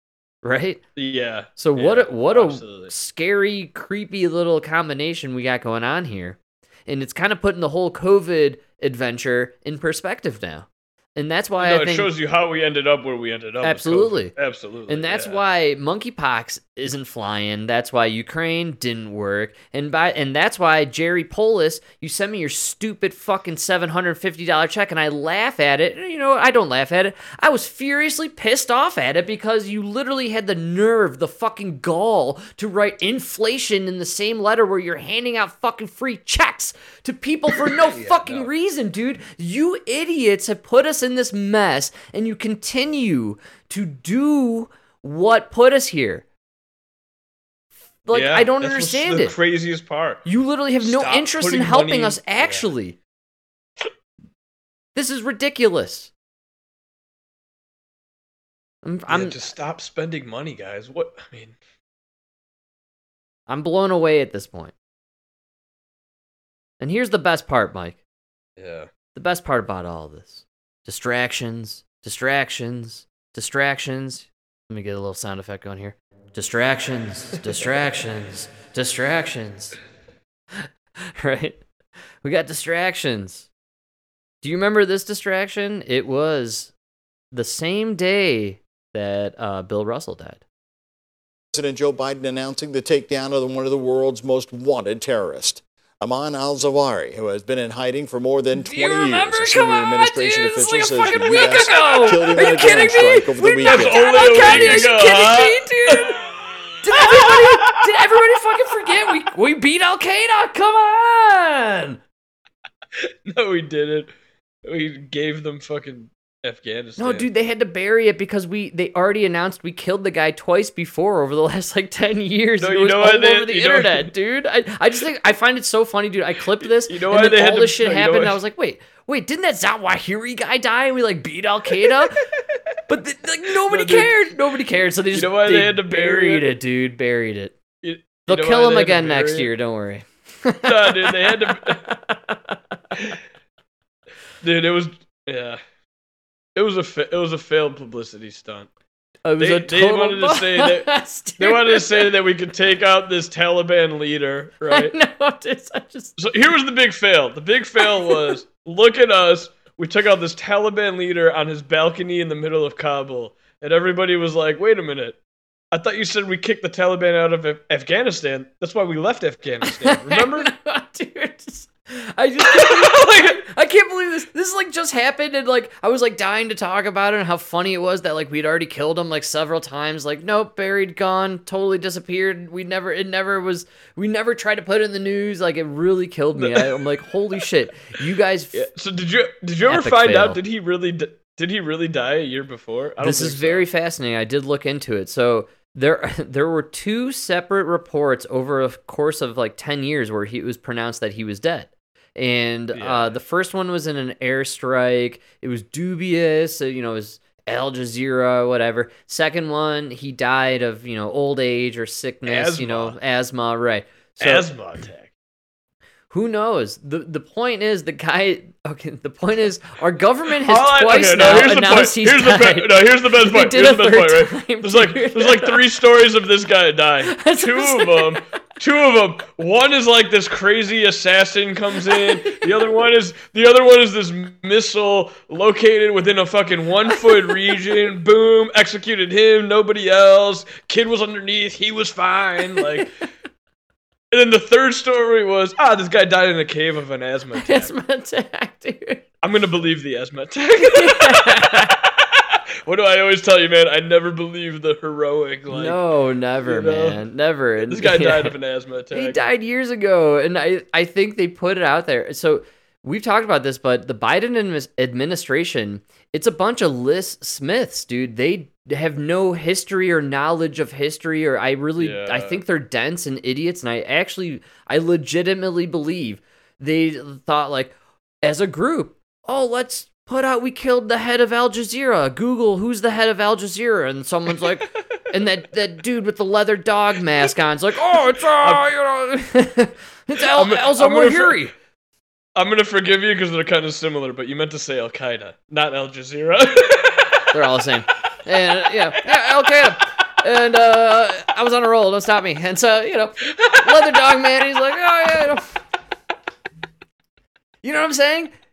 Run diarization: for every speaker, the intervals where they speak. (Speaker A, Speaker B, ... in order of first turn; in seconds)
Speaker A: 0.4-0.8, 1.6-12.1, 13.6-14.3, 14.9-46.2, 48.0-49.3, 50.2-53.0, 54.9-56.1, 58.8-59.4, 63.5-64.7, 66.8-68.0, 69.1-79.8, 80.5-81.6, 82.2-83.5, 84.4-86.7, 87.3-90.4, 98.5-106.2, 106.8-112.0, 117.0-132.2, 132.9-137.5, 138.3-142.6, 149.2-152.1, 154.7-156.2, 157.8-158.4, 169.8-188.7, 189.7-190.4, 193.0-214.5, 216.1-225.6, 227.1-228.2, 231.9-232.7, 236.9-237.3, 247.3-249.0, 250.7-251.8, 255.5-258.3, 258.9-291.5, 297.3-305.6, 307.6-308.3
Speaker B: 0.9-2.9, 11.6-15.4, 37.6-38.5, 48.1-50.2, 50.8-52.7, 59.1-61.5, 68.6-68.9, 103.6-106.2, 107.0-107.6, 113.0-114.1, 114.6-117.3, 122.6-124.1, 126.6-128.4, 131.8-132.1, 133.6-134.2, 135.1-136.5, 137.8-139.5, 140.6-141.9, 144.4-145.6, 146.6-148.7, 149.4-154.9, 156.2-165.2, 165.7-170.5, 172.5-173.4, 186.4-186.8, 188.5-193.6, 202.7-203.2, 212.2-213.0, 214.2-215.1, 220.4-242.9, 244.1-247.7, 249.2-252.0, 252.7-255.8, 256.4-257.0, 257.6-259.2, 271.8-272.4, 288.4-288.6, 290.2-291.4, 292.4-297.3, 303.3-303.9
Speaker C: 91.5-104.9